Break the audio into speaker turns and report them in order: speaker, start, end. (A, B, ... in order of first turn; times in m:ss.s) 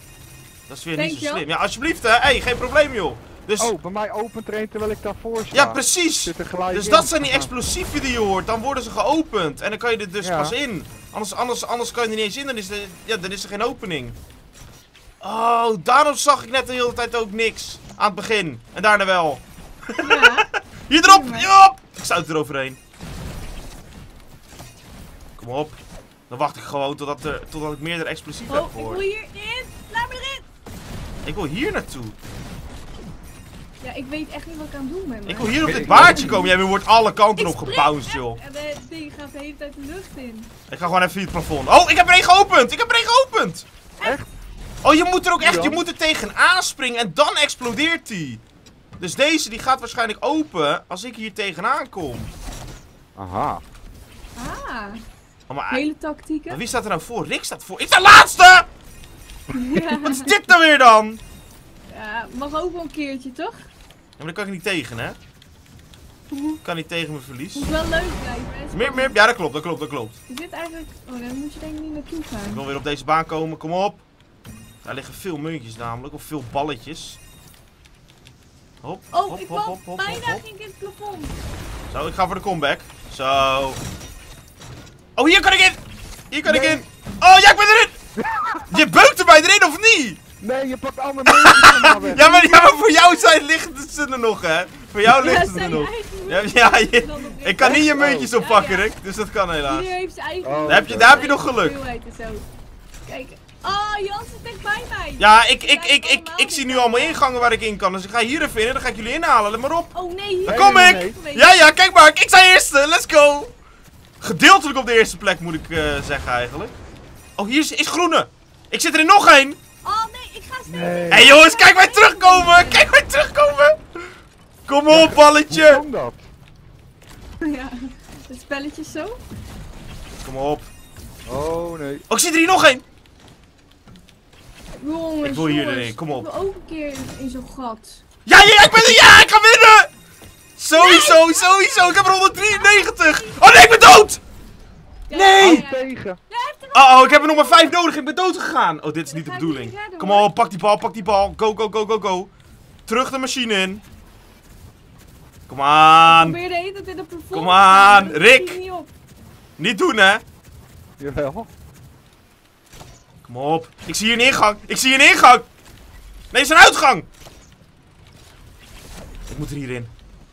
0:00.7-0:03.7 A
0:01.0-0:01.4 B
0:03.6-0:07.5 C
0:05.5-0:14.2 A
0:10.2-0:10.6 C
0:15.2-0:20.3 A
0:20.0-0:20.5 B
0:20.9-0:22.8 A
0:21.0-0:21.5 B
0:25.4-0:25.8 A
0:26.3-0:29.0 A
0:28.5-0:30.4 B
0:31.2-0:32.2 A
0:33.8-0:36.5 B
0:35.2-0:38.4 A
0:35.5-0:36.4 C
0:37.4-0:40.5 B
0:40.7-0:43.6 A
0:44.8-0:48.4 A
0:45.4-0:45.8 C
0:49.0-0:52.3 A
0:53.2-0:53.6 C
0:54.4-0:55.0 B
0:55.5-0:55.9 A
0:55.7-0:56.6 B
0:56.5-0:58.7 A
0:59.5-1:00.3 B
0:59.9-1:01.2 A
1:01.9-1:03.6 B
1:04.2-1:05.2 A
1:06.6-1:07.7 A
1:07.5-1:09.2 B
1:08.7-1:10.1 A
1:10.3-1:12.6 B
1:12.5-1:14.0 A
1:14.8-1:17.2 A
1:18.8-1:20.4 A
1:19.1-1:21.3 B
1:21.9-1:23.8 A
1:25.2-1:25.8 A
1:26.3-1:28.0 A
1:26.4-1:26.8 C
1:28.2-1:28.8 C
1:28.7-1:30.2 A
1:30.4-1:32.3 C
1:31.3-1:39.8 A
1:32.2-1:33.2 B
1:35.0-1:38.9 B
1:37.6-1:38.3 C
1:39.6-1:42.4 B
1:40.4-1:41.2 C
1:40.7-1:41.7 A
1:43.1-1:47.2 B
1:45.2-1:49.9 A
1:49.9-1:51.6 B
1:50.4-1:51.2 C
1:50.5-1:53.5 A
1:54.2-1:56.7 A
1:57.4-1:59.6 A
1:59.8-2:02.9 B
2:00.7-2:01.3 C
2:01.1-2:03.8 A
2:04.7-2:05.8 A
2:04.9-2:06.3 C
2:07.4-2:07.8 B
2:08.3-2:09.2 B
2:10.2-2:10.7 A
2:11.3-2:12.0 C
2:12.1-2:12.8 A
2:14.8-2:18.0 B
2:15.2-2:16.3 A
2:18.2-2:19.9 A
2:20.6-2:24.2 A
2:20.7-2:23.4 B
2:25.1-2:27.8 B
2:25.1-2:25.7 A
2:25.4-2:26.2 C
2:26.7-2:32.3 A
2:29.0-2:30.3 B
2:32.9-2:33.8 A
2:35.5-2:36.4 A
2:36.0-2:38.9 B
2:37.3-2:38.6 A
2:39.6-2:40.2 A
2:41.0-2:41.5 C
2:43.2-2:45.5 A
2:46.3-2:47.1 A
2:49.3-2:49.9 A